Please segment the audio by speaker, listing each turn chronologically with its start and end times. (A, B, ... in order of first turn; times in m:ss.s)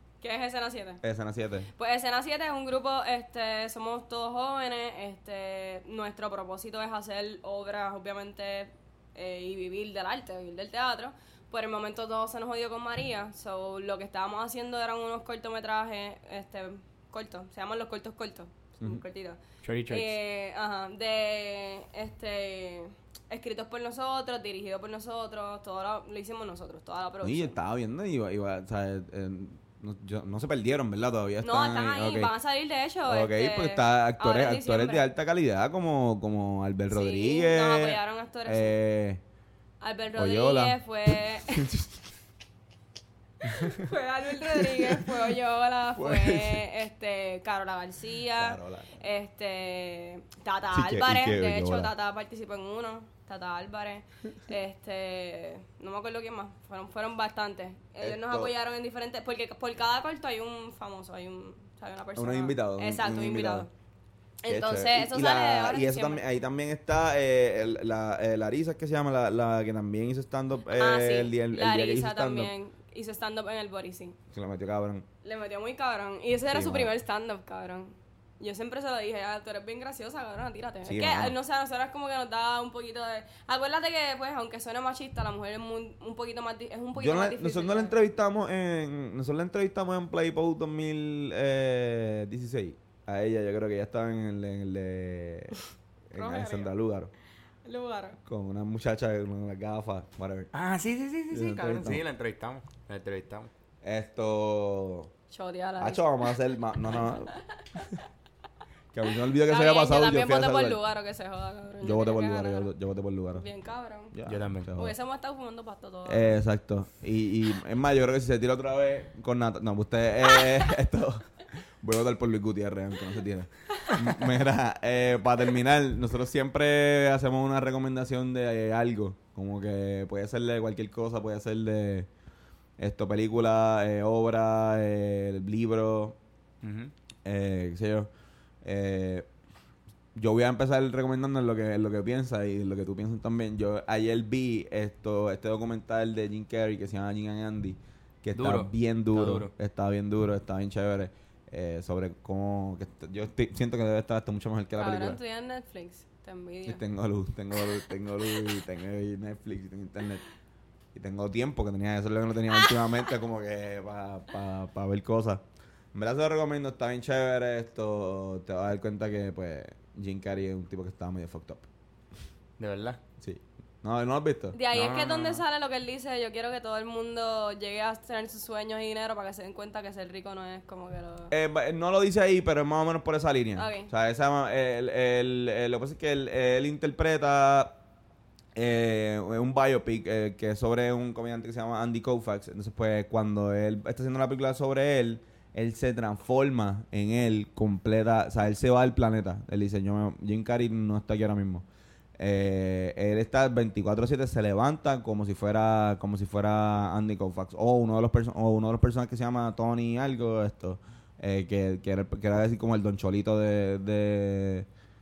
0:00.2-0:01.0 A
0:01.0-0:01.7 B
0:01.8-0:27.6 A
0:19.6-0:20.1 C
0:27.2-0:32.3 B
0:31.4-0:35.1 A
0:33.0-0:39.2 B
0:36.9-0:38.8 A
0:39.8-0:41.7 A
0:40.2-0:42.0 B
0:43.4-1:03.7 A
0:43.4-0:43.8 B
0:44.4-0:45.3 B
0:46.0-0:46.6 B
0:48.4-0:49.0 B
0:50.7-0:51.9 B
0:58.0-0:58.5 B
1:02.2-1:03.7 B
1:04.4-1:06.2 A
1:04.5-1:12.5 B
1:10.8-1:14.2 A
1:14.3-1:15.1 B
1:15.2-1:28.0 A
1:16.5-1:16.9 B
1:20.8-1:21.4 B
1:27.0-1:35.6 B
1:36.1-1:37.1 B
1:36.2-1:36.8 A
1:37.6-1:38.2 A
1:38.3-1:40.5 B
1:40.5-1:43.5 C
1:41.3-1:42.0 B
1:43.8-1:45.1 B
1:45.3-1:46.3 A
1:45.8-1:47.3 B
1:47.0-1:48.0 A
1:48.9-1:50.8 B
1:49.4-1:52.7 A
1:51.8-1:53.5 B
1:53.4-1:54.2 A
1:54.1-1:54.9 B
1:54.3-1:54.8 C
1:54.8-1:56.4 A
1:56.1-2:12.1 B
2:12.8-2:16.2 B
2:16.6-2:16.9 C
2:17.2-2:18.1 B
2:18.6-2:19.3 B
2:20.2-2:35.2 B
2:28.3-2:29.5 C
2:34.8-2:36.8 A
2:36.7-2:40.2 B
2:37.6-2:38.6 A
2:40.9-2:45.4 B
2:45.9-2:51.7 B
2:52.6-2:53.0 C
2:53.2-2:54.6 B
2:54.5-3:01.3 A
2:54.7-2:55.4 C
3:01.3-3:07.8 B
3:03.6-3:03.9 A
3:08.6-3:21.7 B
3:22.2-3:34.7 B